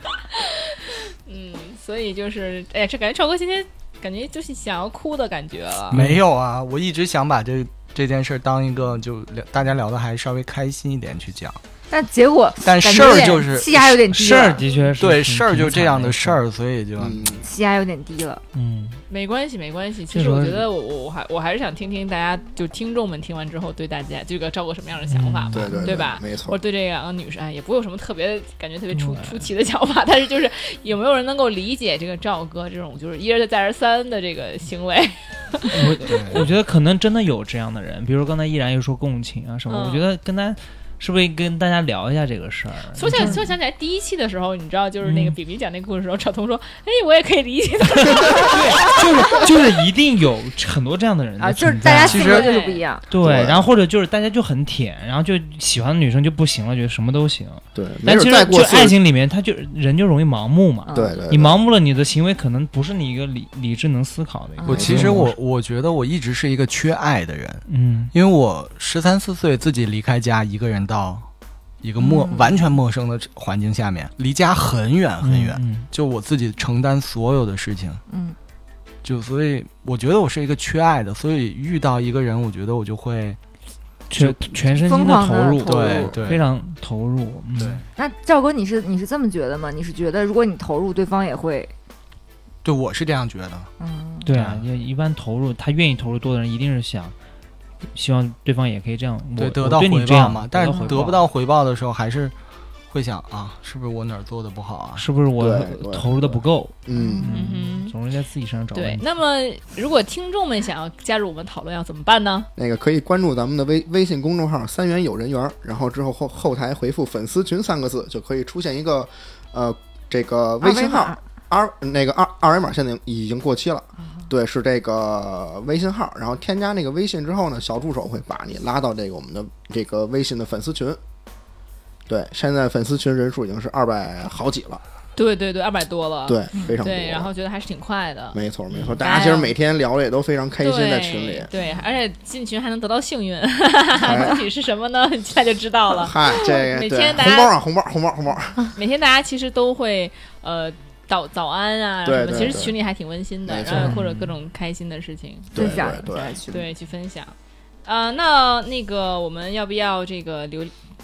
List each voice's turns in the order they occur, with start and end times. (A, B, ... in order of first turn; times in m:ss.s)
0:00.3-0:06.0 A
0:05.9-0:11.6 B
0:05.9-0:06.2 C
0:11.9-0:14.7 D
0:12.6-0:14.0 B
0:14.1-0:16.4 C
0:15.0-0:17.4 B
0:17.0-0:17.4 E
0:17.4-0:18.4 D
0:18.5-0:19.0 C
0:19.1-0:36.4 A
0:20.1-0:20.6 C
0:25.1-0:25.8 C
0:25.5-0:26.6 E
0:28.9-0:29.5 C
0:35.7-0:43.4 C
0:36.0-0:36.4 B
0:39.7-0:40.0 A
0:43.0-0:48.9 A
0:45.0-0:45.4 C
0:48.3-0:52.4 C
0:51.4-0:53.0 D
0:51.9-0:52.5 B
0:52.2-0:52.8 A
0:53.1-1:05.4 C
0:53.1-0:53.7 E
0:57.7-0:59.0 E
1:00.8-1:01.2 D
1:00.9-1:01.6 E
1:04.6-1:05.1 D
1:04.7-1:11.3 B
1:04.7-1:05.2 E
1:07.7-1:08.1 C
1:11.8-1:18.0 B
1:12.0-1:12.6 D
1:15.2-1:15.9 C
1:18.1-1:18.4 D
1:19.0-1:23.4 B
1:24.1-1:27.8 C
1:24.1-1:24.4 B
1:24.6-1:26.3 D
1:25.6-1:26.4 B
1:27.6-1:27.8 B
1:28.0-1:31.7 D
1:32.6-1:33.7 B
1:33.8-1:34.3 D
1:34.2-1:37.1 C
1:34.3-1:34.6 B
1:37.9-1:41.2 C
1:39.4-1:42.3 B
1:40.7-1:41.1 D
1:42.9-1:45.0 B
1:45.0-1:49.0 C
1:45.4-1:47.2 E
1:46.9-1:47.3 D
1:47.3-1:47.9 A
1:48.7-1:52.5 A
1:52.6-2:11.0 E
2:00.6-2:01.2 D
2:12.1-2:14.8 E
2:15.2-2:18.4 A
2:16.3-2:17.3 E
2:18.3-2:21.5 E
2:19.0-2:19.5 A
2:20.6-2:27.5 A
2:24.0-2:24.4 E
2:26.0-2:28.7 E
2:28.7-2:35.8 A
2:32.0-2:32.8 E
2:33.5-2:34.0 E
2:33.7-2:34.4 C
2:35.5-2:36.4 E
2:35.5-2:36.7 D
2:36.5-2:37.3 A
2:37.8-2:40.7 A